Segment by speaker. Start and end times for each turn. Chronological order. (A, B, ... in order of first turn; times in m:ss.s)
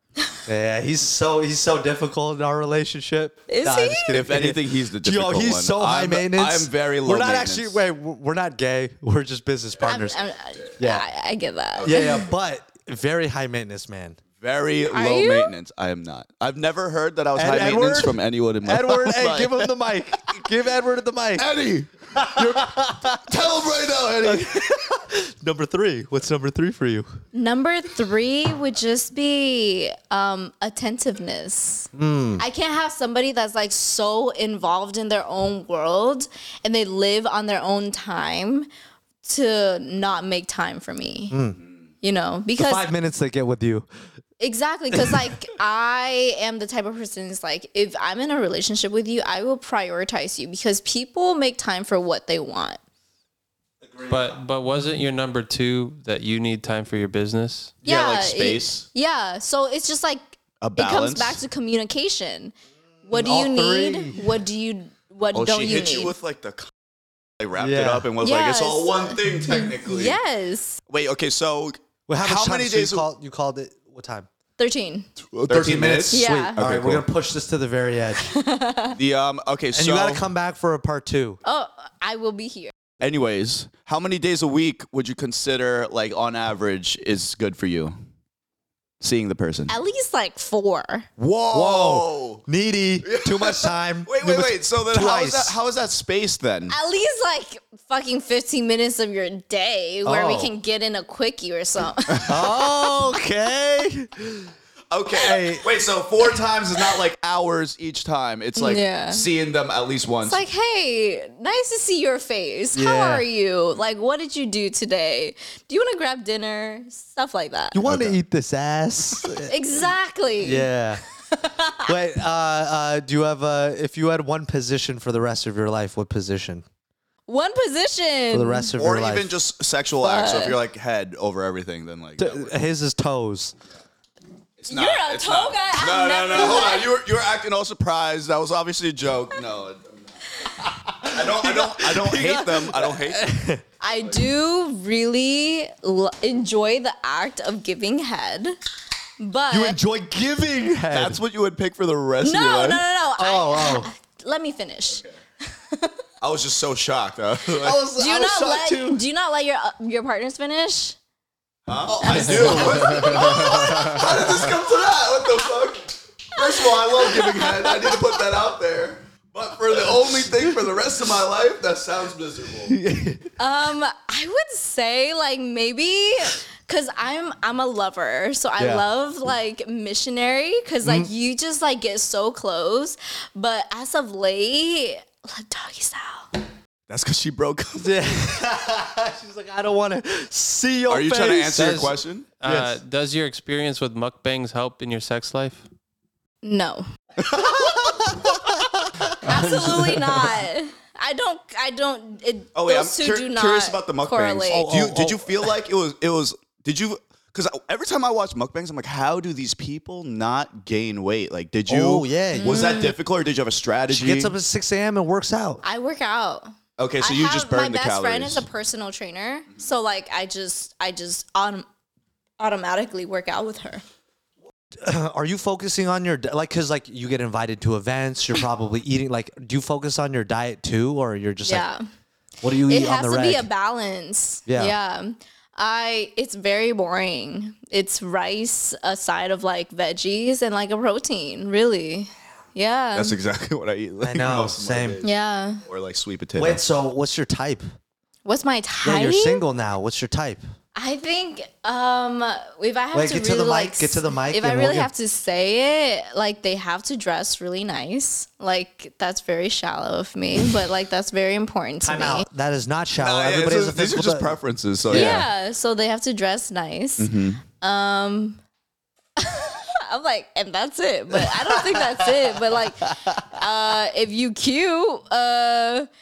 0:00.4-0:10.2 A
0:03.5-0:04.2 B
0:04.1-0:07.8 C
0:09.8-0:12.2 B
0:10.8-0:11.0 A
0:11.8-0:14.2 A
0:14.4-0:19.7 C
0:14.9-0:15.5 B
0:17.4-0:21.5 A
0:21.4-0:24.5 C
0:22.2-0:23.3 A
0:24.2-0:27.1 A
0:27.3-0:38.7 B
0:31.9-0:32.4 A
0:39.2-0:41.4 B
0:41.3-0:41.6 A
0:42.0-0:42.8 B
0:42.6-0:43.9 A
0:44.4-0:52.8 B
0:53.8-0:54.3 A
0:54.1-0:57.7 D
0:57.8-0:58.8 C
0:57.8-1:02.5 B
1:00.6-1:01.4 C
1:03.0-1:04.3 A
1:03.1-1:06.1 B
1:05.3-1:06.7 C
1:07.4-1:10.2 C
1:07.6-1:08.1 A
1:08.2-1:10.8 B
1:10.9-1:13.1 C
1:12.1-1:14.3 A
1:14.6-1:15.1 B
1:15.3-1:17.0 C
1:15.5-1:18.3 A
1:16.1-1:16.6 B
1:18.2-1:19.0 B
1:18.9-1:20.2 C
1:19.7-1:21.4 A
1:21.4-1:22.7 B
1:23.0-1:27.9 C
1:29.0-1:29.7 C
1:29.7-1:31.1 B
1:31.2-1:32.4 C
1:31.5-1:35.6 A
1:33.0-1:36.8 C
1:36.7-1:42.8 B
1:40.0-1:40.5 A
1:42.3-1:44.5 A
1:44.9-1:50.4 C
1:45.1-1:45.6 A
1:48.6-1:49.2 B
1:50.2-1:57.8 B
1:52.7-1:53.2 A
1:57.7-1:59.5 A
1:57.8-1:58.2 C
1:59.2-2:00.7 B
2:00.4-2:01.0 A
2:01.3-2:01.9 B
2:01.8-2:06.6 A
2:07.3-2:08.7 B
2:08.3-2:09.4 A
2:08.8-2:12.5 C
2:10.0-2:10.6 B
2:12.2-2:13.5 A
2:14.6-2:20.0 C
2:14.7-2:16.9 B
2:20.6-2:23.6 A
2:21.0-2:23.3 C
2:23.8-2:28.5 B
2:29.2-2:29.8 B
2:29.5-2:31.2 A
2:30.9-2:32.8 C
2:32.2-2:36.0 B
2:33.2-2:33.9 A
2:36.2-2:37.9 C
2:37.5-2:39.0 A
2:37.9-2:41.0 B
2:41.6-2:52.8 C
2:42.0-2:44.5 A
2:42.0-2:44.2 B
2:46.4-2:46.8 B
2:46.9-2:48.0 A
2:52.7-2:53.3 A
2:53.4-3:06.3 B
2:58.6-2:58.8 A
3:00.8-3:01.1 A
3:06.9-3:08.0 C
3:07.8-3:11.8 A
3:10.9-3:12.3 C
3:11.5-3:15.6 D
3:12.4-3:12.8 A
3:16.4-3:16.8 B
3:17.2-3:18.5 C
3:17.3-3:20.4 A
3:19.2-3:24.7 B
3:22.5-3:34.3 C
3:24.5-3:25.3 A
3:31.7-3:32.8 A
3:32.3-3:32.9 B
3:33.9-3:35.6 A
3:35.6-3:41.6 B
3:36.8-3:38.4 C
3:42.4-3:43.8 B
3:44.8-3:51.7 A
3:51.4-3:51.8 B
3:52.4-3:53.5 A
3:52.6-4:03.2 B
3:54.5-3:54.7 A
4:02.9-4:05.1 C
4:04.0-4:05.0 A
4:05.0-4:05.6 B
4:05.6-4:06.6 C
4:06.4-4:07.6 A
4:08.2-4:09.4 B
4:08.8-4:10.4 A
4:10.8-4:22.2 B
4:12.9-4:14.9 A
4:21.8-4:24.3 A
4:23.0-4:25.2 C
4:24.9-4:25.2 A
4:24.9-4:28.4 B
4:27.0-4:27.4 C
4:29.2-4:35.9 B
4:31.1-4:33.4 A